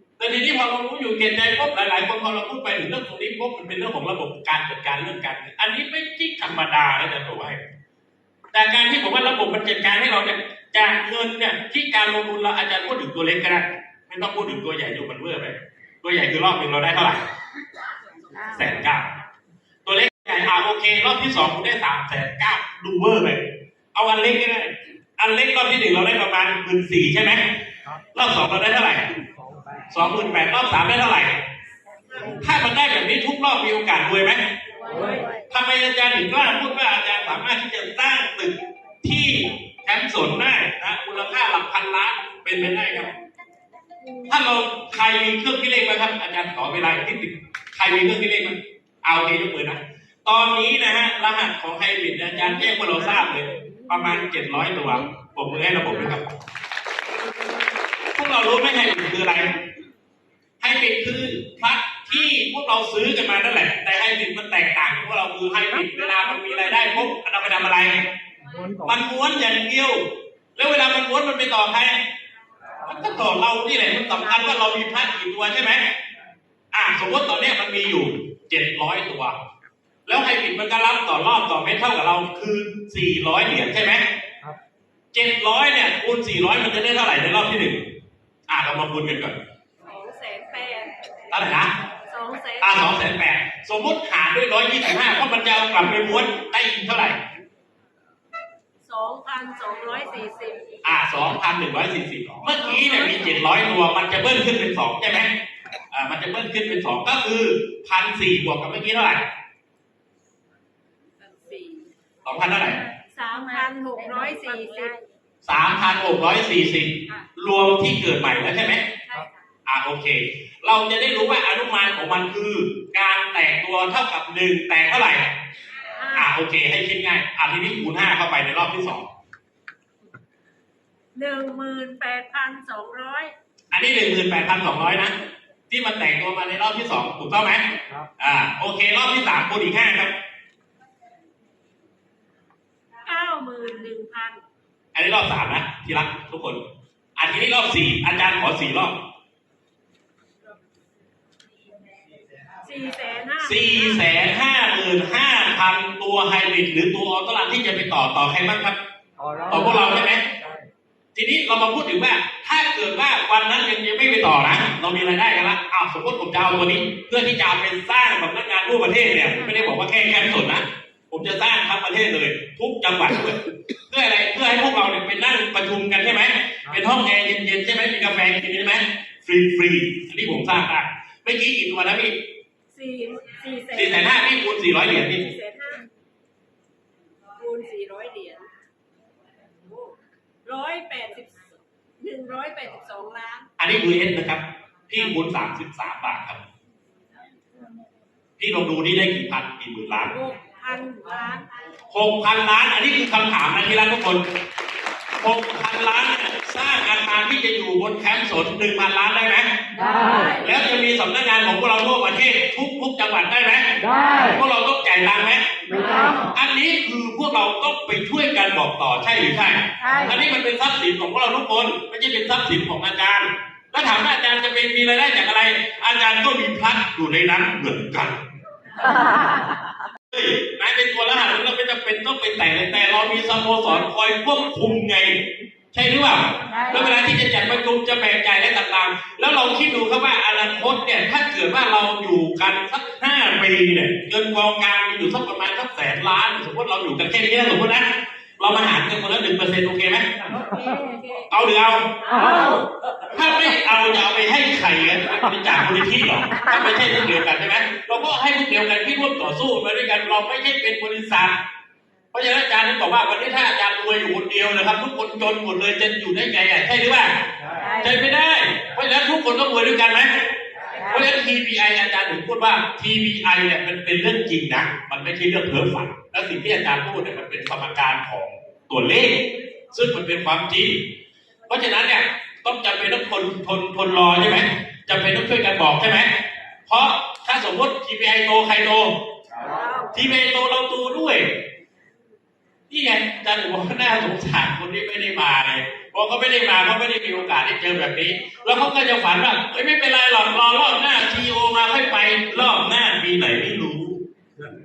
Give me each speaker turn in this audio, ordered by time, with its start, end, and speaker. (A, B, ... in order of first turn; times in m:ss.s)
0:00.2-0:07.6 A
0:08.5-0:17.3 A
0:18.5-0:19.1 A
0:19.8-0:27.5 A
0:28.1-0:29.1 A
0:29.6-0:29.8 B
0:29.9-0:31.4 A
0:32.1-0:34.4 A
0:34.8-0:35.3 C
0:34.9-0:35.2 B
0:35.5-0:43.2 A
0:44.2-0:56.3 A
0:58.1-0:59.6 A
1:00.6-1:08.1 A
1:08.5-1:08.9 B
1:08.8-1:12.0 A
1:12.8-1:15.9 A
1:16.7-1:19.4 A
1:20.1-1:24.0 A
1:25.1-1:27.9 A
1:28.5-1:29.4 A
1:29.8-1:31.0 C
1:31.3-1:31.7 A
1:32.0-1:32.8 C
1:32.6-1:37.2 A
1:38.9-1:40.8 C
1:40.8-1:45.3 A
1:45.9-1:49.3 A
1:51.3-1:51.9 C
1:52.2-1:52.8 A
1:53.0-1:55.0 C
1:55.4-1:58.9 A
1:59.0-1:59.3 C
1:59.7-2:05.4 A
2:06.0-2:06.3 C
2:06.1-2:09.1 A
2:11.2-2:13.4 C
2:13.7-2:15.2 A
2:15.7-2:20.2 A
2:23.0-2:24.4 C
2:24.9-2:26.6 A
2:27.2-2:29.0 A
2:32.6-2:34.0 C
2:33.4-2:38.8 A
2:39.2-2:39.6 B
2:39.5-2:40.2 A
2:40.3-2:40.6 B
2:41.2-3:02.2 A
3:02.7-3:04.2 C
3:03.7-3:05.3 A
3:05.0-3:05.9 C
3:07.3-3:08.5 C
3:09.6-3:13.5 C
3:13.6-3:16.4 A
3:18.4-3:20.2 A
3:20.1-3:21.5 C
3:21.9-3:24.4 A
3:25.2-3:29.5 A
3:29.8-3:30.3 B
3:29.8-3:30.4 C
3:30.2-3:48.2 A
3:35.7-3:36.2 B
3:35.7-3:36.1 C
3:39.8-3:40.2 B
3:49.0-3:49.4 B
3:50.1-4:10.1 A
4:10.4-4:11.3 C
4:11.3-4:21.4 A
4:12.1-4:12.5 C
4:22.1-4:40.9 A
4:27.5-4:27.8 B
4:41.5-4:49.0 A
4:49.5-4:49.9 C
4:49.8-4:51.4 A
4:52.7-5:04.0 A